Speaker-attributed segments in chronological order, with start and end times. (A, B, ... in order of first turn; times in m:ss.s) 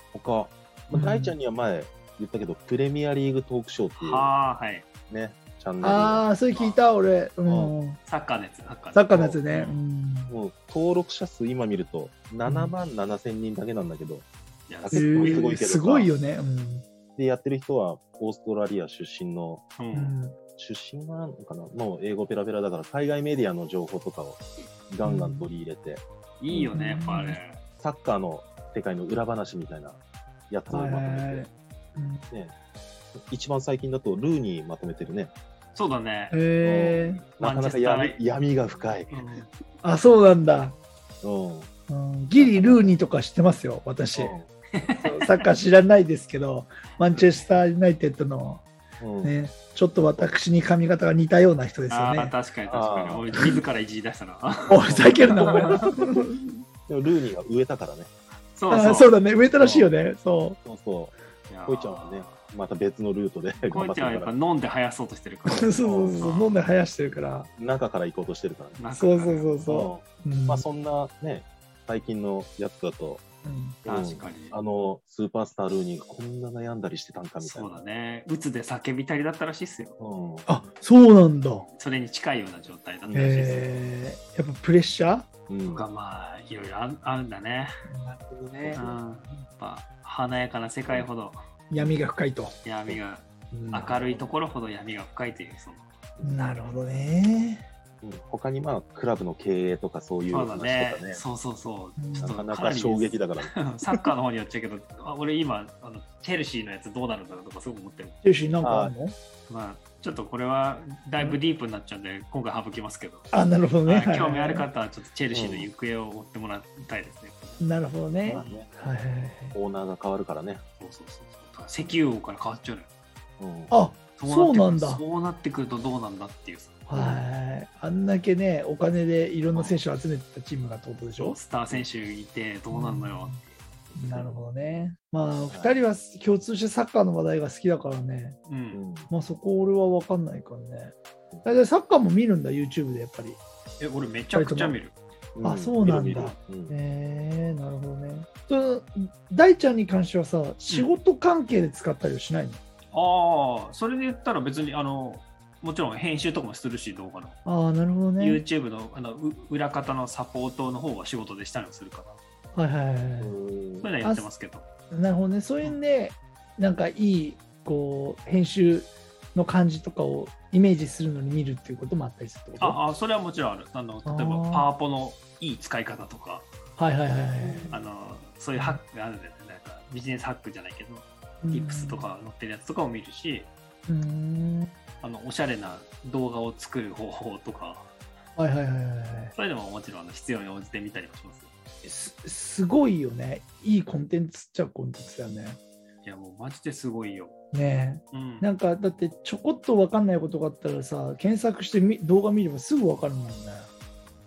0:00.1-0:04.3 A
0:00.9-0:01.4 B
0:04.0-0:04.9 C
0:05.1-0:06.2 A
0:05.8-0:08.0 B
0:06.5-0:06.8 C
0:07.4-0:07.7 A
0:08.0-0:09.8 C
0:08.9-0:10.3 B
0:09.1-0:09.4 A
0:10.3-0:14.2 A
0:12.4-0:12.7 B
0:14.7-0:15.5 C
0:14.8-0:16.1 A
0:14.9-0:16.8 B
0:17.1-0:19.7 A
0:19.8-0:20.1 C
0:19.9-0:20.4 B
0:20.6-0:26.8 A
0:25.0-0:25.5 B
0:26.4-0:27.6 C
0:26.7-0:27.4 B
0:27.8-0:30.0 A
0:30.5-0:31.4 A
0:30.7-0:32.2 B
0:33.1-0:35.3 A
0:35.7-0:36.4 C
0:36.3-0:37.2 B
0:36.6-0:39.1 A
0:37.4-0:38.2 C
0:39.1-0:39.5 C
0:39.8-0:40.8 B
0:41.2-0:41.7 A
0:41.9-0:44.4 B
0:42.4-0:43.0 A
0:44.1-0:44.4 A
0:44.7-0:45.4 C
0:45.0-0:48.6 B
0:49.0-0:49.3 A
0:49.2-0:52.3 B
0:51.9-0:55.9 C
0:52.7-0:53.2 A
0:54.6-0:56.4 B
0:54.9-0:56.0 A
0:56.9-0:58.1 A
0:58.5-0:59.2 C
0:58.7-1:00.6 B
0:59.6-0:59.9 A
1:00.6-1:01.1 A
1:01.5-1:02.5 C
1:01.6-1:04.3 A
1:03.6-1:06.6 C
1:05.4-1:07.5 B
1:05.8-1:06.4 A
1:07.6-1:08.8 A
1:08.8-1:09.6 C
1:08.9-1:10.6 B
1:09.6-1:13.2 A
1:13.4-1:13.8 B
1:13.8-1:14.6 C
1:13.8-1:17.8 A
1:17.4-1:20.0 C
1:20.0-1:20.5 A
1:20.4-1:21.7 B
1:21.7-1:23.9 C
1:23.1-1:23.4 A
1:23.1-1:25.3 B
1:25.5-1:25.8 A
1:25.7-1:27.7 C
1:27.9-1:28.8 B
1:28.3-1:29.0 A
1:28.7-1:31.4 C
1:31.7-1:32.5 B
1:32.6-1:35.9 C
1:33.5-1:33.9 B
1:33.8-1:34.3 A
1:36.2-1:37.0 A
1:36.2-1:37.6 B
1:38.0-1:41.2 A
1:40.3-1:48.2 C
1:42.0-1:42.4 B
1:42.2-1:43.6 A
1:48.2-1:49.1 B
1:48.6-1:48.9 A
1:49.5-1:53.3 C
1:53.3-1:54.7 B
1:53.8-1:57.7 C
1:55.3-1:55.7 A
1:57.6-1:59.6 B
1:58.2-1:58.6 C
1:58.2-1:58.7 A
1:59.5-2:00.6 A
2:00.8-2:02.9 C
2:03.4-2:03.7 A
2:03.7-2:05.0 B
2:04.2-2:06.8 C
2:06.9-2:11.4 B
2:06.9-2:07.2 A
2:09.5-2:09.8 C
2:11.2-2:13.6 C
2:12.7-2:13.4 B
2:13.9-2:18.4 B
2:14.1-2:14.4 A
2:15.5-2:15.8 A
2:18.5-2:18.8 C
2:18.7-2:19.1 A
2:19.1-2:23.4 B
2:23.8-2:24.9 C
2:24.3-2:24.8 B
2:25.3-2:26.7 A
2:25.4-2:32.6 B
2:32.9-2:37.3 C
2:37.4-2:38.4 B
2:38.2-2:42.2 C
2:42.5-2:43.4 B
2:43.2-2:43.9 A
2:43.8-2:44.6 C
2:44.0-2:44.3 B
2:44.9-2:52.8 B
2:52.6-2:56.5 C
2:54.0-2:54.7 B
2:56.8-2:57.7 B
2:57.4-2:57.8 A
2:57.7-3:03.5 C
2:58.5-2:58.8 B
3:01.4-3:02.1 B
3:03.9-3:04.7 B
3:05.0-3:07.9 C
3:08.4-3:09.3 B
3:09.3-3:11.5 C
3:11.8-3:15.6 B
3:16.0-3:17.3 C
3:17.5-3:23.7 B
3:18.1-3:18.5 C